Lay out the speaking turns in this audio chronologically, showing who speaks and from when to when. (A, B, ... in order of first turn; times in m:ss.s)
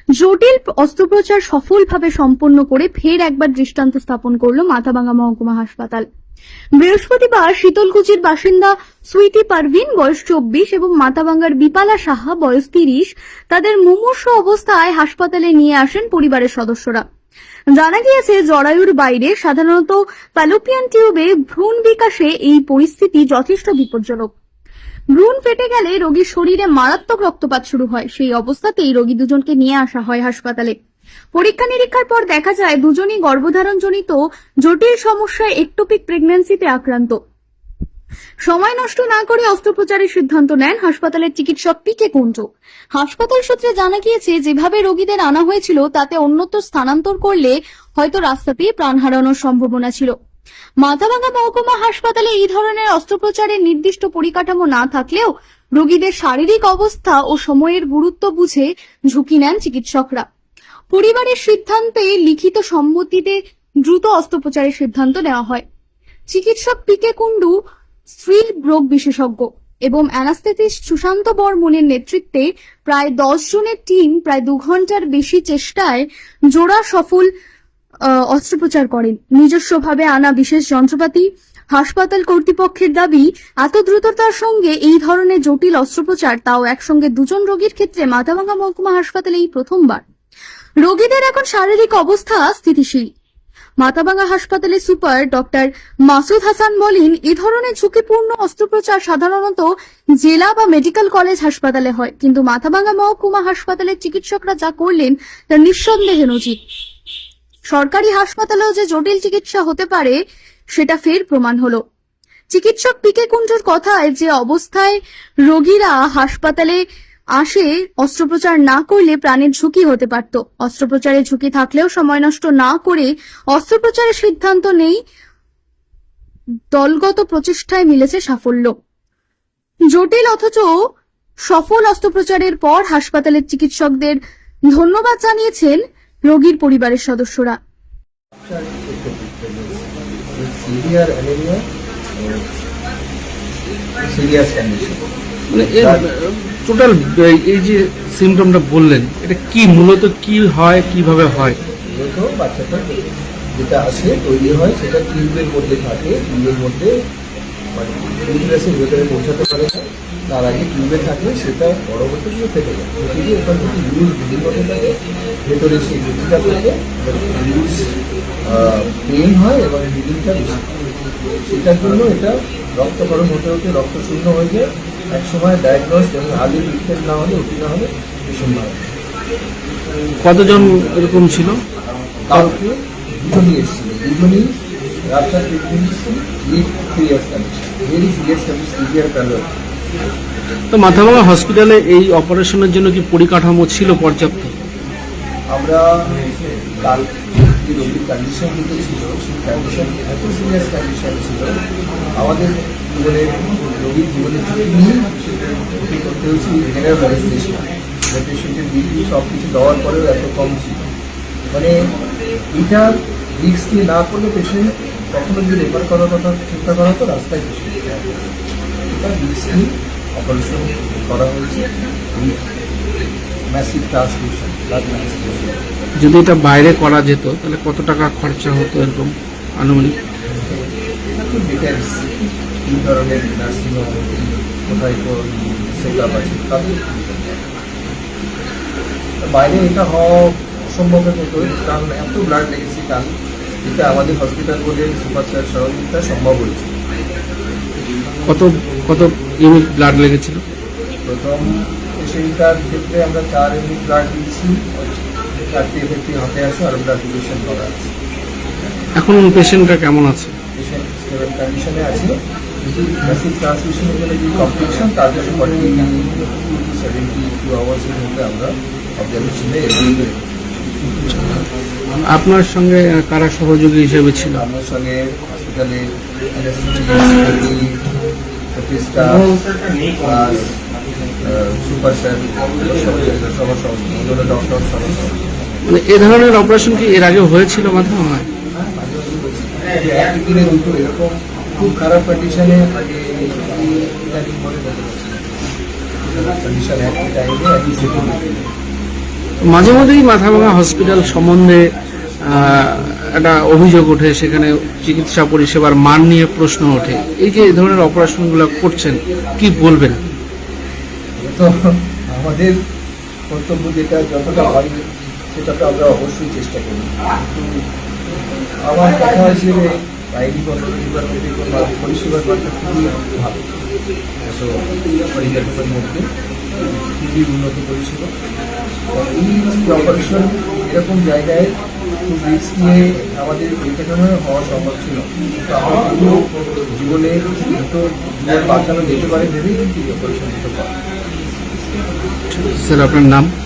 0:00.2-0:06.0 A
0:06.8-0:17.0 A
0:17.8-0:24.3 A
0:25.1-0:30.8 A
0:31.3-0:37.2 A
0:38.5-0:50.1 A
0:50.8-1:00.2 A
1:00.9-1:05.6 A
1:06.3-1:07.6 A
1:08.1-1:17.3 A
1:18.1-1:30.0 A
1:30.8-1:33.1 A
1:33.8-1:39.7 A
1:40.2-1:46.6 A
1:47.7-1:50.2 A
1:50.7-1:51.8 A
1:52.5-1:56.8 A
1:57.4-2:05.0 A
2:06.7-2:08.7 A
2:09.9-2:10.7 A
2:11.5-2:14.2 A
2:14.7-2:17.6 A
2:18.4-2:22.4 B
2:24.0-2:25.0 B
2:25.5-2:31.6 C
2:25.5-2:26.0 B
2:31.9-2:33.0 B
2:33.6-2:37.0 B
2:37.8-2:47.9 B
2:48.4-2:50.7 B
2:51.5-2:58.9 B
3:00.2-3:01.6 C
3:02.3-3:04.5 B
3:05.1-3:09.5 B
3:10.7-3:14.5 C
3:15.5-3:21.6 B
3:22.2-3:30.8 B
3:32.5-3:38.3 B
3:38.9-3:42.4 B
3:43.5-3:45.6 B
3:46.0-3:49.9 C
3:50.4-3:57.4 B
3:59.2-4:03.1 B
4:03.6-4:06.8 B
4:08.3-4:10.4 C
4:11.1-4:17.9 B
4:19.0-4:20.4 C
4:20.6-4:22.2 B
4:22.8-4:30.3 B
4:30.9-4:31.4 C
4:32.0-4:34.4 C
4:34.4-4:37.8 B
4:38.5-4:39.4 B
4:40.0-4:40.6 B
4:41.2-4:45.6 B
4:45.7-4:48.3 C
4:48.5-4:55.5 B
4:56.0-4:58.5 B
4:59.4-5:10.0 C
5:11.2-5:12.6 B
5:13.3-5:16.9 B
5:18.6-5:23.4 B
5:24.2-5:26.1 B
5:26.8-5:28.1 B
5:28.9-5:31.5 B
5:32.1-5:40.8 B
5:42.3-5:43.3 C